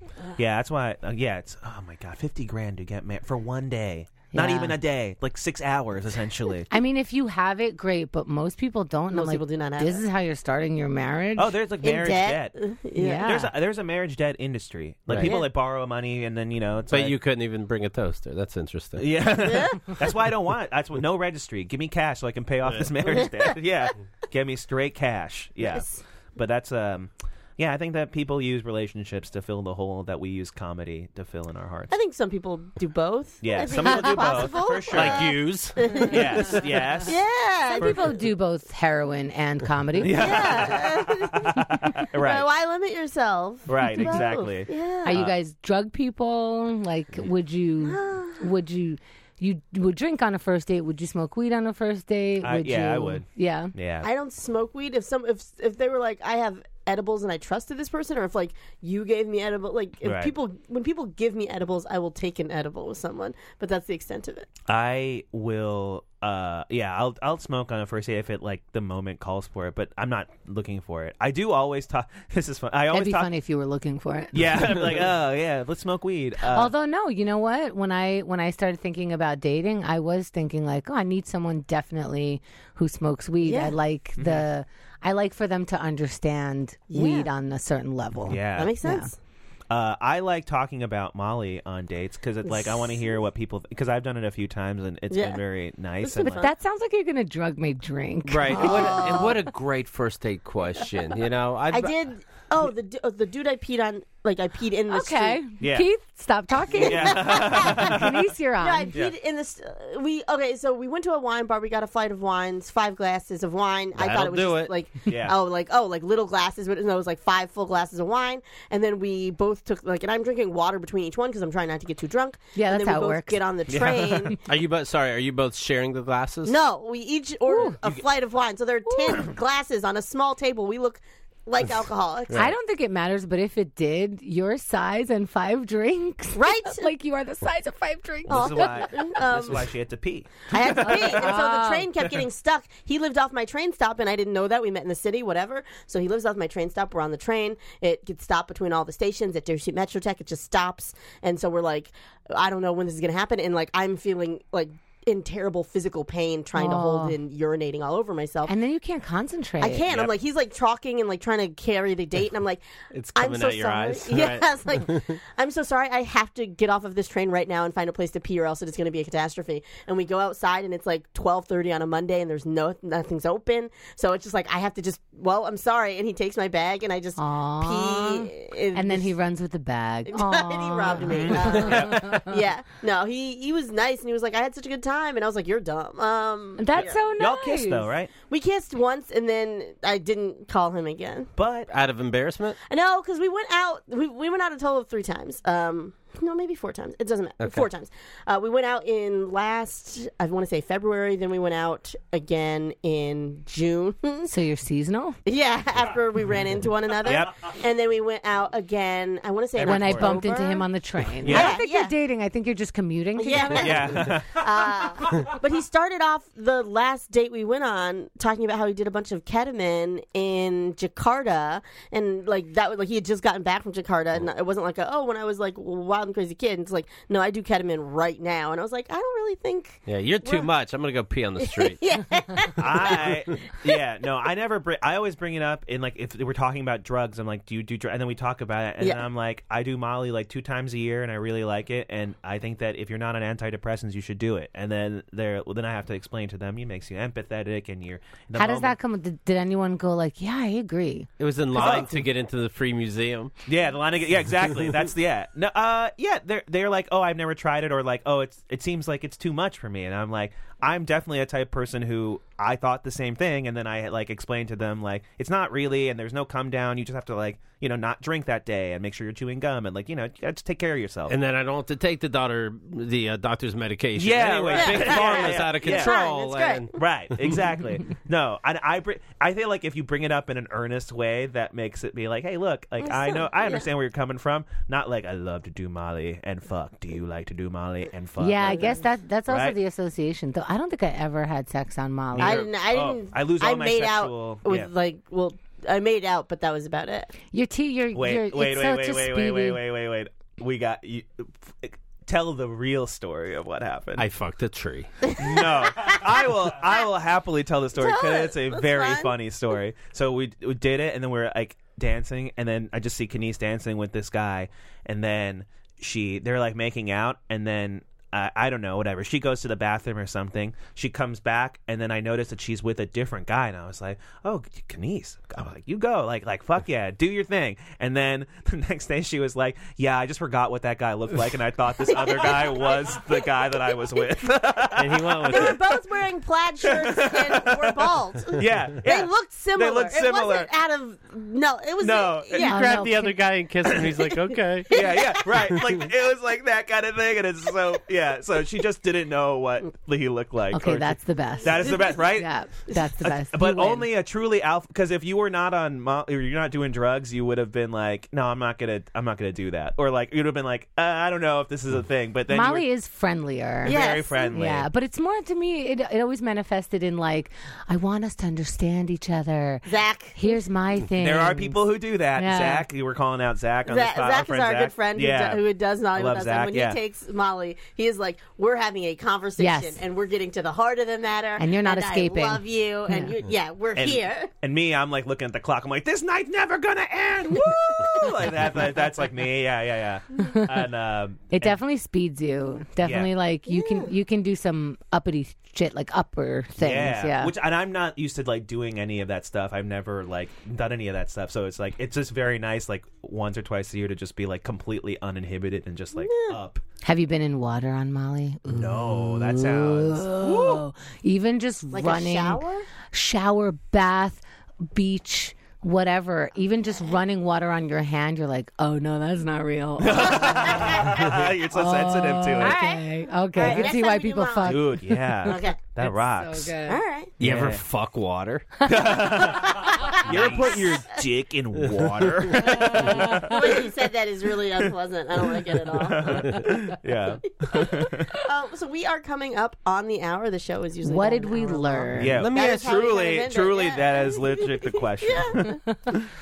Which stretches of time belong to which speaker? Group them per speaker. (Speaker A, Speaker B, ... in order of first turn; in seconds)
Speaker A: 0.4-6.7, 11.4-12.6, 13.2-17.1, 18.9-31.9, 33.4-35.4, 36.0-37.2, 40.0-42.5, 43.7-45.3, 52.4-54.1, 60.0-60.3, 64.7-73.3, 74.3-76.7, 84.2-84.4, 88.3-88.8, 89.7-96.4, 105.6-105.9, 106.8-108.2, 115.1-115.4, 123.7-124.3, 138.3-141.3, 181.0-182.1, 186.7-188.1, 191.4-191.7, 207.0-207.5, 209.5-210.2, 211.2-211.6, 213.5-214.9, 232.6-248.8, 251.5-251.9, 253.5-271.1, 274.0-276.0, 276.7-289.5, 292.1-294.7, 297.9-304.1, 305.2-335.7, 336.6-340.5, 341.8-342.6, 343.6-344.0, 344.7-352.3, 353.0-362.6, 363.6-364.6, 371.0-375.4, 375.9-376.8, 383.7-391.6, 392.8-393.1, 396.6-406.6, 408.5-410.6, 419.8-422.6, 424.4-426.5, 427.2-427.6, 428.6-433.6, 435.7-438.1, 441.9-445.9
Speaker B: 4.3-4.8, 6.7-11.5, 12.9-13.5, 37.7-40.4, 45.0-53.7, 72.9-74.4, 76.5-89.1, 96.2-99.3, 104.9-108.9, 122.5-123.4, 127.5-127.8, 128.9-129.2, 132.3-139.1, 140.8-141.9, 156.6-157.2, 158.5-159.9, 177.2-182.4, 186.6-187.9, 204.2-205.2, 209.6-213.9, 248.3-252.0, 288.2-292.4, 297.3-299.6, 342.4-343.2, 350.5-353.9, 362.3-363.8, 364.3-371.6, 372.1-372.6, 379.4-379.8, 381.4-383.1, 390.2-390.5, 391.3-397.3, 406.8-420.9, 421.5-425.3, 425.8-426.8, 432.5-433.3, 440.8-442.2
Speaker C: 9.1-10.0, 11.8-13.3, 15.2-15.5, 19.4-20.0, 23.1-23.3, 25.6-26.0, 31.9-38.2, 40.1-45.1, 47.8-48.5, 54.0-64.5, 83.4-83.7, 86.9-87.3, 88.6-89.2, 92.4-93.0, 95.1-95.4, 96.0-96.5, 98.6-99.4, 101.7-105.4, 106.7-107.9, 108.6-124.4, 126.4-132.5, 136.3-136.9, 138.3-139.7, 140.5-158.5, 159.6-162.6, 163.1-179.1, 180.1-187.0, 188.3-191.3, 192.7-204.3, 205.2-210.7, 211.2-211.9, 213.2-230.5, 231.4-233.1, 274.5-276.8, 282.8-283.7, 288.5-288.8, 292.2-297.1, 305.1-305.9, 307.8-309.1, 331.8-334.3, 335.2-342.6, 344.7-345.2, 363.6-364.4, 369.6-370.4, 373.7-384.3, 387.3-388.2, 393.5-393.9, 406.0-406.4, 411.7-412.7, 422.4-425.6, 426.6-427.1, 429.4-430.8, 433.0-436.4, 437.4-445.6
Speaker D: 15.1-15.3, 16.9-19.1, 34.9-36.6, 98.2-101.9, 113.9-114.7, 124.4-126.5, 162.9-165.2, 181.7-182.0, 191.7-192.6, 197.4-197.7, 229.9-231.8, 251.2-253.3, 271.1-277.4, 304.0-304.9, 334.8-335.6, 342.4-344.7, 427.2-428.5, 431.6-432.5, 442.0-442.7